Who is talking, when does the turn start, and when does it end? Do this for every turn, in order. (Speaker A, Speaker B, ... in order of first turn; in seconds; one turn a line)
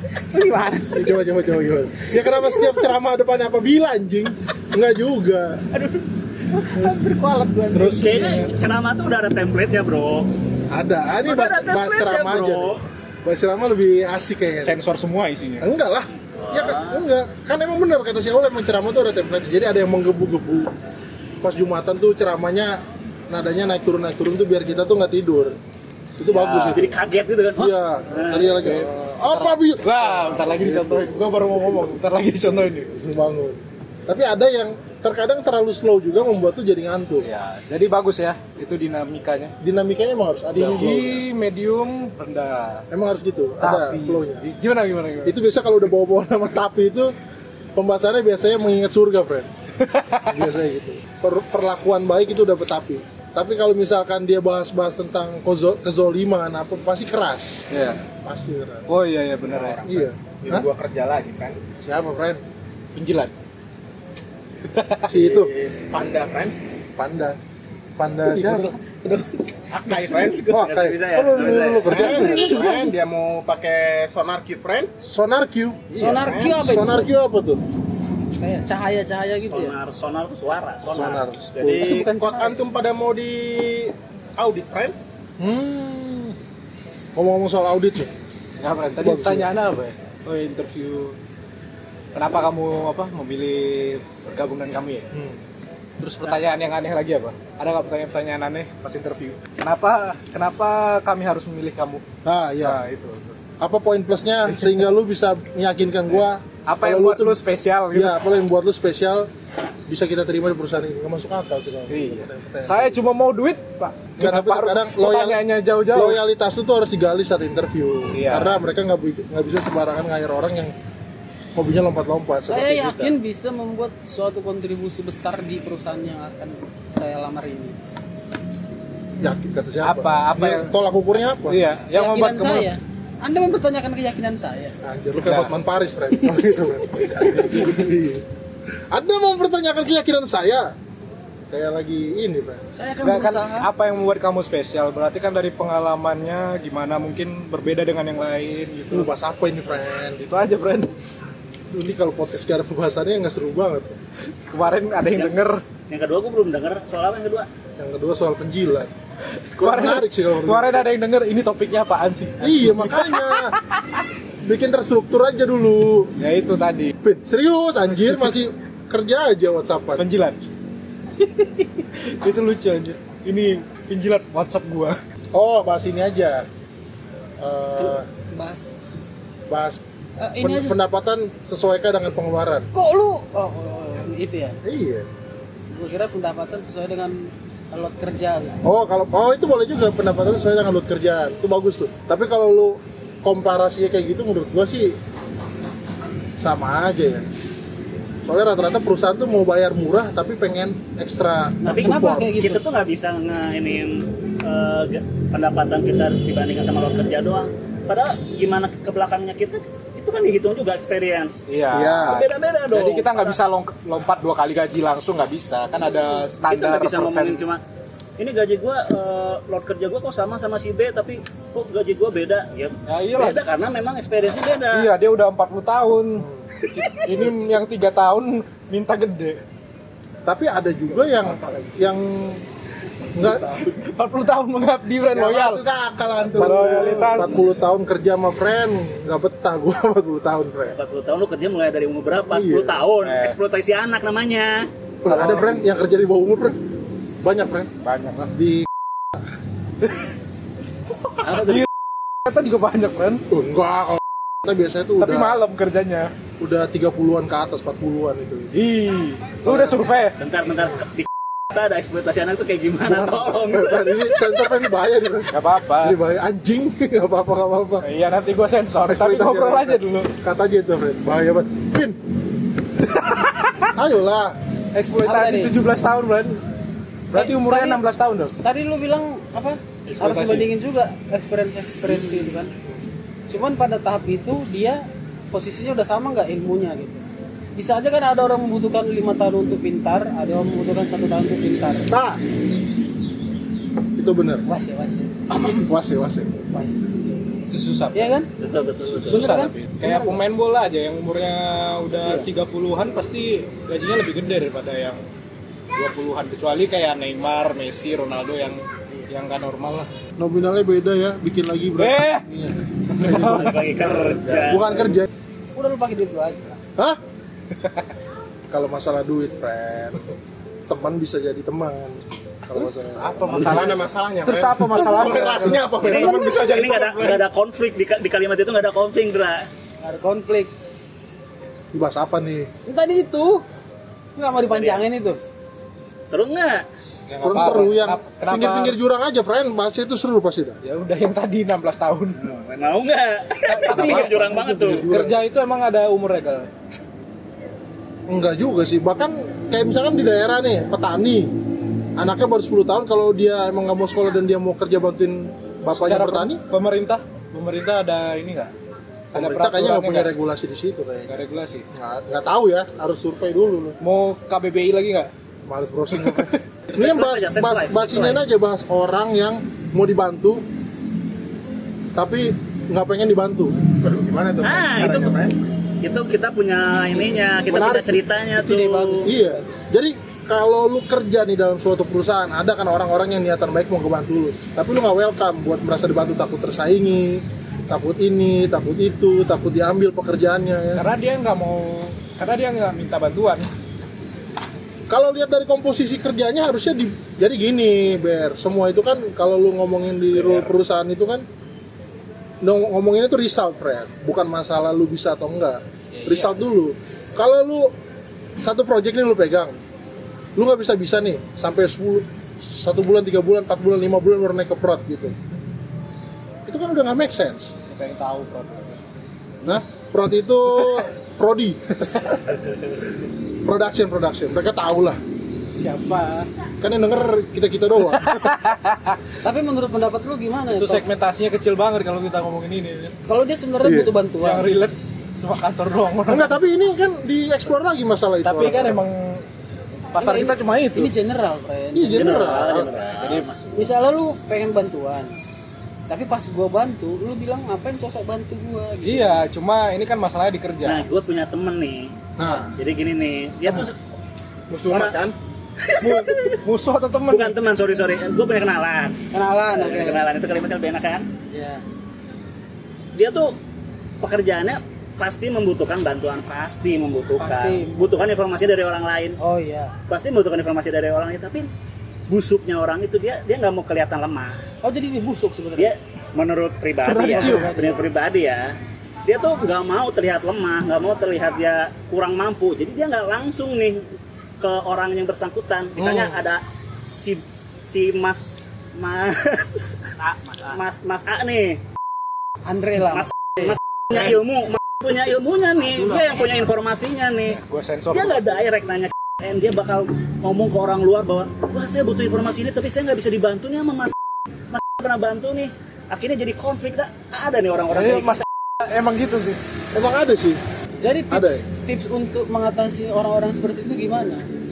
Speaker A: 0.3-1.2
Speaker B: 0.9-5.7
Speaker A: 6.5-8.2
Speaker C: 7.7-8.5
Speaker D: 7.9-10.3
Speaker B: 10.7-14.8
Speaker D: 11.2-12.8
Speaker C: 14.6-15.7
Speaker B: 15.6-20.7
Speaker D: 16.4-17.0
Speaker B: 21.4-25.6
Speaker B: 26.2-27.0
Speaker D: 26.4-28.6
Speaker C: 26.4-26.8
Speaker B: 27.6-31.2
Speaker C: 28.6-32.9
Speaker B: 32.9-37.3
Speaker C: 37.2-39.5
Speaker B: 39.6-41.2
Speaker C: 40.5-42.9
Speaker B: 42.9-44.5
Speaker C: 43.6-45.4
Speaker B: 45.2-47.1
Speaker B: 47.8-49.5
Speaker C: 49.8-50.5
Speaker B: 50.3-58.9
Speaker C: 57.7-58.0
Speaker C: 58.9-59.9
Speaker E: 59.5-61.6
Speaker B: 59.8-60.7
Speaker B: 61.8-62.4
Speaker C: 63.0-63.3
Speaker C: 64.6-65.1
Speaker B: 65.1-65.5
Speaker E: 65.1-66.5
Speaker B: 67.0-67.4
Speaker B: 68.0-68.7
Speaker A: 68.3-70.0
Speaker E: 69.7-70.6
Speaker B: 70.4-72.7
Speaker D: 70.5-72.3
Speaker E: 71.8-74.9
Speaker A: 71.9-72.9
Speaker B: 75.0-77.6
Speaker E: 75.9-76.6
Speaker A: 75.9-77.1
Speaker A: 78.4-79.8
Speaker D: 79.4-81.2
Speaker B: 80.8-82.0
Speaker E: 81.6-85.0
Speaker A: 81.8-82.6
Speaker B: 85.4-86.4
Speaker B: 87.2-88.1
Speaker C: 88.6-91.2
Speaker B: 89.0-89.5
Speaker C: 92.2-95.1
Speaker B: 95.1-95.4
Speaker C: 96.0-102.0
Speaker B: 102.2-102.8
Speaker C: 102.6-103.4
Speaker B: 103.6-107.4
Speaker C: 106.1-108.2
Speaker B: 107.9-109.3
Speaker B: 109.9-113.0
Speaker C: 111.9-116.2
Speaker B: 114.2-120.7
Speaker C: 118.1-118.6
Speaker B: 121.5-123.2
Speaker A: 122.5-127.8
Speaker B: 129.2-131.7
Speaker C: 129.8-130.7
Speaker C: 131.5-132.7
Speaker A: 131.9-134.8
Speaker B: 134.8-138.2
Speaker C: 135.2-135.5
Speaker C: 137.2-137.8
Speaker B: 138.9-140.7
Speaker B: 141.5-142.6
Speaker A: 142.7-143.7
Speaker C: 143.0-149.1
Speaker B: 148.9-150.2
Speaker C: 150.2-150.9
Speaker B: 151.7-154.0
Speaker C: 154.5-155.6
Speaker D: 155.1-157.5
Speaker B: 157.8-158.9
Speaker C: 159.4-164.0
Speaker B: 159.6-160.9
Speaker B: 162.4-163.6
Speaker B: 164.4-166.1
Speaker C: 166.2-166.9
Speaker B: 167.0-170.1
Speaker C: 170.0-170.4
Speaker C: 171.2-175.0
Speaker B: 175.3-176.5
Speaker B: 177.4-178.1
Speaker A: 177.8-178.7
Speaker B: 179.5-179.8
Speaker A: 180.2-180.8
Speaker B: 180.4-182.7
Speaker A: 182.7-184.6
Speaker B: 184.6-185.1
Speaker A: 185.7-188.6
Speaker B: 188.6-195.0
Speaker B: 196.4-197.2
Speaker B: 198.2-202.4
Speaker A: 201.6-202.6
Speaker D: 201.7-211.4
Speaker C: 211.5-217.5
Speaker B: 211.7-212.2
Speaker D: 212.0-213.4
Speaker D: 216.5-217.6
Speaker D: 218.2-224.9
Speaker C: 222.9-223.4
Speaker C: 224.7-229.4
Speaker B: 226.2-226.5
Speaker B: 230.2-232.4
Speaker C: 231.0-231.9
Speaker B: 233.2-233.7
Speaker C: 233.6-235.6
Speaker E: 235.1-237.3
Speaker C: 236.4-237.5
Speaker B: 236.4-240.8
Speaker D: 240.7-244.7
Speaker B: 242.2-242.8
Speaker C: 243.0-243.4
Speaker B: 245.0-246.6
Speaker C: 245.1-245.7
Speaker B: 247.2-247.7
Speaker C: 247.8-248.3
Speaker B: 248.3-248.7
Speaker D: 251.2-251.7
Speaker C: 251.2-251.7
Speaker C: 252.2-253.2
Speaker B: 253.3-255.4
Speaker C: 255.0-256.1
Speaker B: 256.4-258.5
Speaker C: 258.5-260.2
Speaker B: 259.4-259.8
Speaker D: 260.2-264.2
Speaker B: 262.9-267.9
Speaker C: 265.3-266.0
Speaker C: 267.8-270.1
Speaker B: 268.9-272.0
Speaker C: 272.8-273.7
Speaker B: 273.8-274.4
Speaker C: 274.7-276.4
Speaker A: 275.0-275.6
Speaker C: 277.1-278.3
Speaker A: 277.1-277.8
Speaker A: 278.4-282.5
Speaker C: 279.9-280.5
Speaker C: 281.9-282.3
Speaker A: 283.3-287.0
Speaker A: 287.6-291.9
Speaker B: 291.9-292.2
Speaker B: 294.0-294.5
Speaker A: 294.5-295.7
Speaker B: 295.6-296.4
Speaker A: 296.5-297.2
Speaker C: 297.5-298.2
Speaker A: 297.9-298.3
Speaker D: 298.4-299.4
Speaker C: 299.0-305.0
Speaker A: 299.1-300.2
Speaker C: 305.7-309.9
Speaker B: 310.2-313.6
Speaker C: 311.8-312.2
Speaker C: 312.9-314.5
Speaker D: 313.1-314.8
Speaker B: 314.3-315.1
Speaker A: 315.6-316.6
Speaker B: 318.5-320.1
Speaker B: 320.7-323.8
Speaker C: 322.9-325.8
Speaker E: 323.2-327.2
Speaker D: 325.8-329.5
Speaker A: 326.0-326.4
Speaker A: 329.8-330.5
Speaker B: 331.7-332.5
Speaker A: 332.7-333.4
Speaker A: 334.2-335.2
Speaker D: 334.4-334.9
Speaker D: 336.1-336.7
Speaker C: 337.1-338.8
Speaker B: 337.2-340.6
Speaker C: 340.6-342.2
Speaker D: 342.2-344.9
Speaker C: 343.5-346.5
Speaker B: 343.7-345.2
Speaker B: 348.1-351.3
Speaker B: 352.0-356.4
Speaker C: 355.7-358.5
Speaker C: 359.1-360.1
Speaker B: 359.1-361.2
Speaker C: 361.1-361.6
Speaker B: 361.7-363.8
Speaker C: 363.8-365.1
Speaker B: 365.5-370.4
Speaker C: 366.0-366.4
Speaker D: 366.7-368.2
Speaker B: 371.9-373.6
Speaker E: 373.8-375.3
Speaker D: 374.4-375.2
Speaker D: 375.8-379.1
Speaker B: 377.5-378.0
Speaker A: 378.4-379.6
Speaker B: 379.1-390.9
Speaker C: 390.8-393.5
Speaker B: 394.9-401.2
Speaker C: 400.1-400.5
Speaker B: 402.4-407.7
Speaker C: 405.9-406.4
Speaker B: 408.4-409.6
Speaker B: 410.4-415.1
Speaker B: 416.5-417.5
Speaker C: 417.6-418.9
Speaker B: 419.4-422.4
Speaker B: 423.4-425.0
Speaker C: 425.6-426.3
Speaker B: 426.6-428.3
Speaker C: 428.0-429.0
Speaker A: 429.2-430.9
Speaker C: 430.5-432.9
Speaker A: 433.1-434.5
Speaker B: 433.6-433.9
Speaker C: 434.2-436.4
Speaker B: 436.1-438.8
Speaker C: 438.2-439.2
Speaker C: 439.9-440.9
Speaker A: 440.0-442.5
Speaker B: 441.7-442.7
Speaker D: 441.9-443.7
Speaker C: 442.6-443.3
Speaker A: 443.5-445.2
Speaker A: 445.9-449.3
Speaker C: 448.8-450.9
Speaker D: 450.7-451.9
Speaker B: 452.2-452.5
Speaker D: 452.5-453.8
Speaker E: 454.5-455.1
Speaker D: 454.7-455.0
Speaker D: 455.6-456.4
Speaker C: 455.8-457.4
Speaker D: 457.1-461.1
Speaker A: 459.1-460.1
Speaker A: 461.3-461.6
Speaker D: 462.9-463.4
Speaker D: 464.0-469.2
Speaker A: 467.2-468.1
Speaker A: 469.2-469.7
Speaker D: 469.9-471.5
Speaker D: 472.1-474.4
Speaker A: 474.6-475.7
Speaker D: 475.6-483.9
Speaker C: 476.9-477.5
Speaker A: 476.9-477.8
Speaker D: 484.4-491.6
Speaker B: 485.8-486.2
Speaker A: 492.5-493.6
Speaker D: 492.9-497.4
Speaker C: 497.3-498.4
Speaker D: 497.9-503.9
Speaker D: 504.5-508.2
Speaker C: 507.7-509.4
Speaker B: 509.7-510.4
Speaker A: 510.8-514.3
Speaker B: 511.1-511.4